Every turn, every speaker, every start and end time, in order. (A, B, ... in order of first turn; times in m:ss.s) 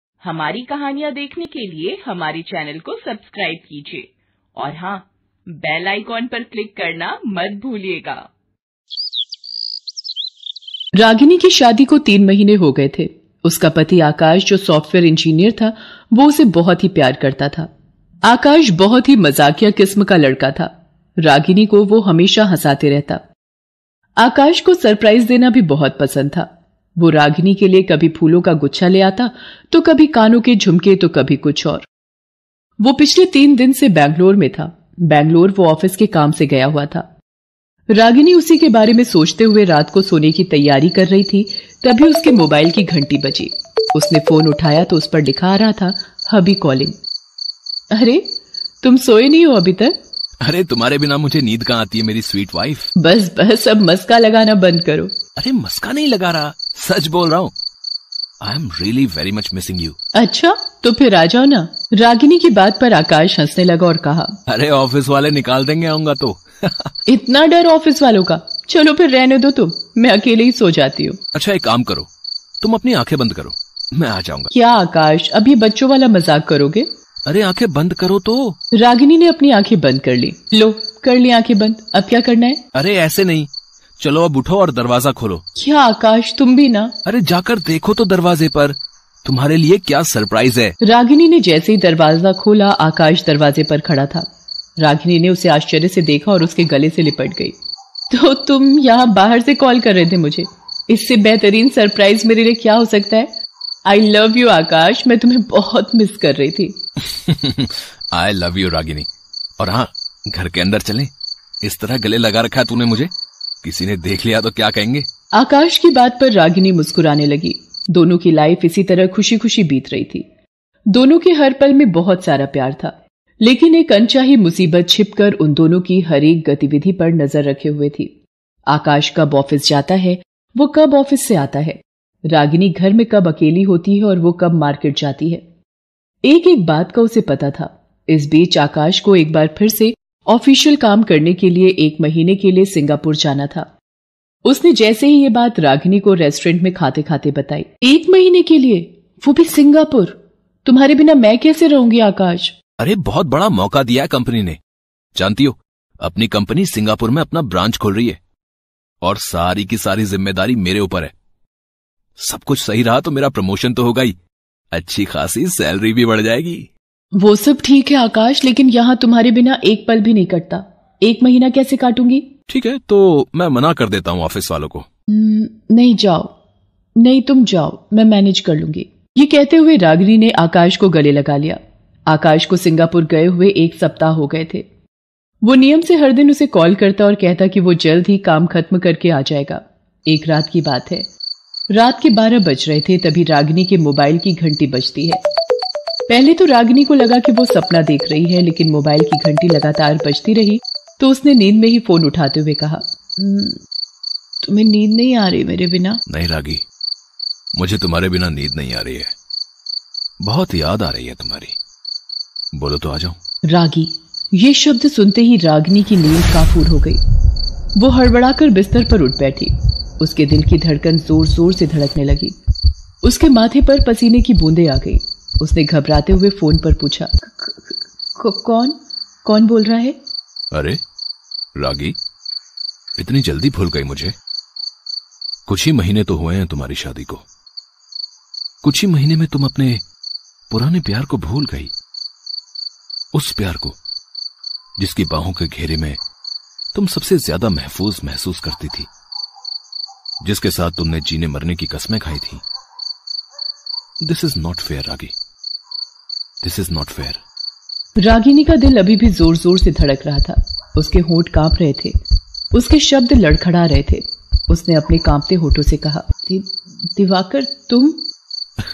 0:00.2-0:08.3 A
0:11.0-0:17.7 B
0:18.2-0:20.7 B
0:21.2-0:23.2 B
0:24.2-0:26.5 B
0:27.0-0:31.9 B
0:32.8-0:37.0 B
0:37.9-0:47.0 B
0:47.9-0:48.2 B
0:48.8-0:50.0 B
0:50.4-0:52.9 C
0:53.0-0:55.1 B
0:55.4-0:57.5 C
0:58.4-1:00.0 C
1:00.2-1:04.4 B
1:04.5-1:06.9 C
1:07.1-1:11.2 B
1:11.4-1:12.1 C
1:12.6-1:14.5 C
1:14.5-1:16.9 B
1:17.3-1:18.6 C
1:18.7-1:22.6 B
1:22.7-1:25.4 C
1:25.6-1:26.9 B
1:27.0-1:30.8 C
1:30.8-1:34.3 B
1:34.8-1:37.5 B
1:38.1-1:43.3 B
1:43.9-1:46.8 B
1:47.1-1:49.1 C
1:49.6-1:51.1 C
1:51.6-1:53.1 C
1:53.6-1:55.1 C
1:55.3-2:00.2 B
2:00.9-2:08.1 B
2:08.7-2:15.4 B
2:16.2-2:23.7 B
2:24.4-2:32.6 B
2:32.8-2:34.6 C
2:35.2-2:38.2 C
2:39.0-2:41.1 C
2:42.2-2:44.1 C
2:44.7-2:46.7 C
2:47.2-2:52.3 B
2:52.5-2:54.8 C
2:55.1-2:56.3 B
2:57.0-3:04.7 B
3:05.4-3:11.1 B
3:11.7-3:15.2 B
3:16.1-3:23.6 B
3:24.4-3:26.0 B
3:26.1-3:26.6 C
3:27.6-3:29.1 C
3:30.2-3:31.6 C
3:32.5-3:33.2 C
3:33.5-3:37.0 B
3:37.8-3:42.4 B
3:43.0-3:50.0 B
3:50.5-3:50.8 C
3:51.6-3:52.0 C
3:53.0-3:54.1 C
3:55.5-3:57.2 C
3:58.6-3:59.8 C
4:00.5-4:01.7 C
4:03.1-4:03.8 C
4:04.8-4:06.0 C
4:06.7-4:08.9 C
4:10.2-4:12.4 C
4:14.0-4:15.1 C
4:16.4-4:17.2 C
4:18.0-4:22.0 B
4:22.5-4:28.0 B